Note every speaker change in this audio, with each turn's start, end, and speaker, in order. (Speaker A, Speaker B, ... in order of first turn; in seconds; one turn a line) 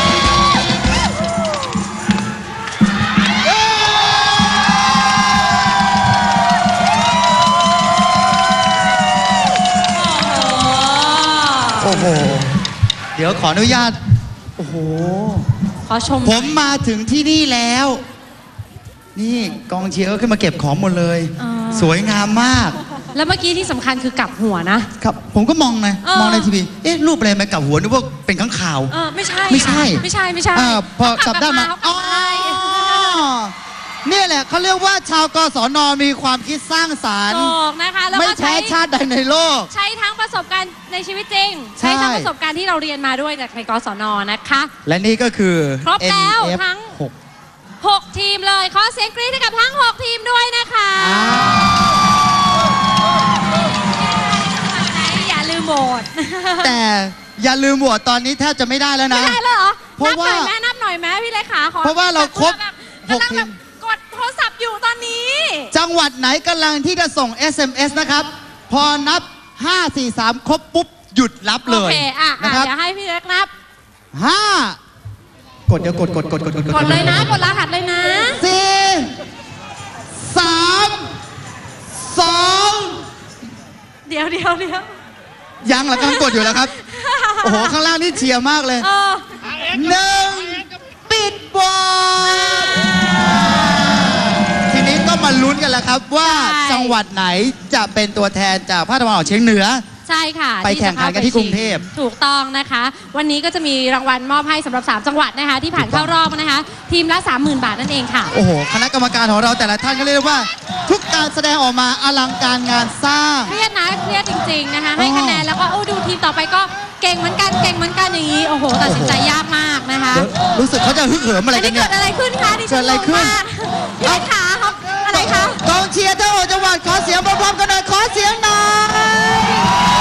Speaker A: 9.9-11.9
Speaker B: 11.8-12.5
Speaker B: 13.2-14.0
Speaker B: 14.6-15.5
Speaker A: 15.9-16.6
Speaker B: 16.2-18.0
Speaker B: 19.2-22.8
Speaker A: 21.4-22.0
Speaker A: 23.1-24.9
Speaker B: 25.0-28.9
Speaker A: 26.0-26.5
Speaker A: 28.9-33.2
Speaker B: 29.5-33.5
Speaker B: 34.0-37.5
Speaker A: 37.3-38.8
Speaker B: 38.1-39.7
Speaker A: 39.7-44.7
Speaker B: 41.8-42.3
Speaker B: 44.9-47.1
Speaker A: 45.8-46.9
Speaker A: 47.8-51.4
Speaker B: 51.0-51.8
Speaker A: 54.0-56.7
Speaker B: 56.6-59.4
Speaker A: 59.1-65.7
Speaker B: 60.0-60.5
Speaker B: 61.8-63.5
Speaker B: 65.7-72.7
Speaker A: 71.7-73.5
Speaker B: 74.1-74.8
Speaker B: 75.7-77.3
Speaker A: 76.7-78.4
Speaker B: 78.3-79.1
Speaker B: 80.2-81.1
Speaker B: 82.0-83.0
Speaker A: 84.1-84.9
Speaker B: 85.6-86.7
Speaker A: 86.0-87.8
Speaker B: 87.4-88.9
Speaker A: 88.8-89.3
Speaker B: 89.7-99.8
Speaker A: 96.2-97.0
Speaker A: 100.1-108.3
Speaker B: 100.6-101.9
Speaker B: 105.8-106.1
Speaker B: 108.3-113.5
Speaker A: 113.5-120.3
Speaker B: 115.0-115.5
Speaker B: 118.8-119.2
Speaker B: 120.1-121.9
Speaker A: 121.5-125.6
Speaker B: 122.7-123.4
Speaker B: 125.1-129.6